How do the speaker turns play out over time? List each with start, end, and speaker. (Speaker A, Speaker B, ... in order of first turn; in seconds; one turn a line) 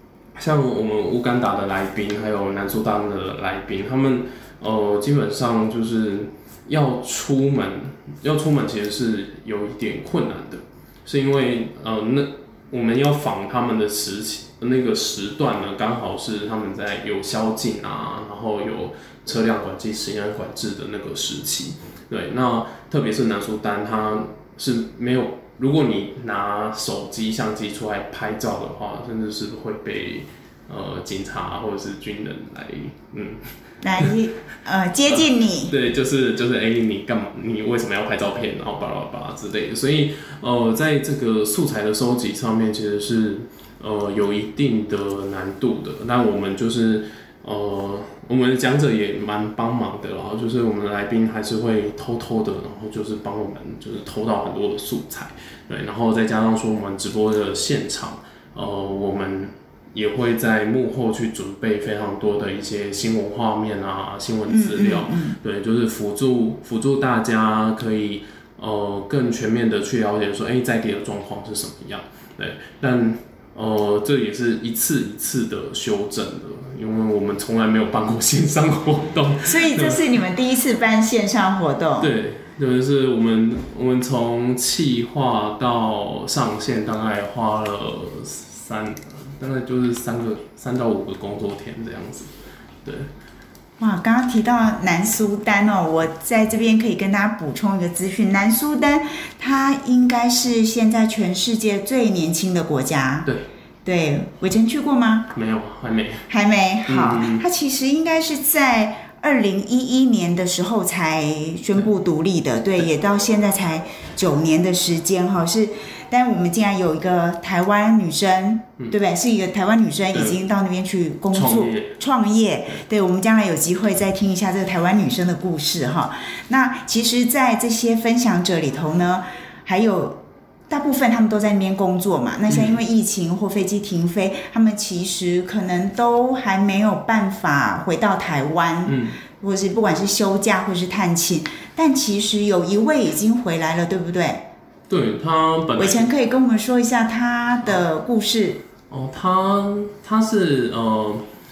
Speaker A: 0.3-34.1
Speaker B: 33.8-35.7
Speaker A: 35.0-80.0
Speaker B: 64.5-65.4
Speaker B: 79.4-82.1
Speaker A: 82.0-92.3
Speaker A: 92.8-93.1
Speaker B: 93.8-103.3
Speaker B: 103.8-105.3
Speaker A: 105.3-106.3
Speaker B: 106.3-144.4
Speaker A: 106.9-107.4
Speaker A: 120.1-120.4
Speaker A: 121.3-122.0
Speaker A: 132.5-132.8
Speaker A: 138.8-139.2
Speaker A: 144.9-146.1
Speaker B: 145.8-148.6
Speaker A: 148.9-151.2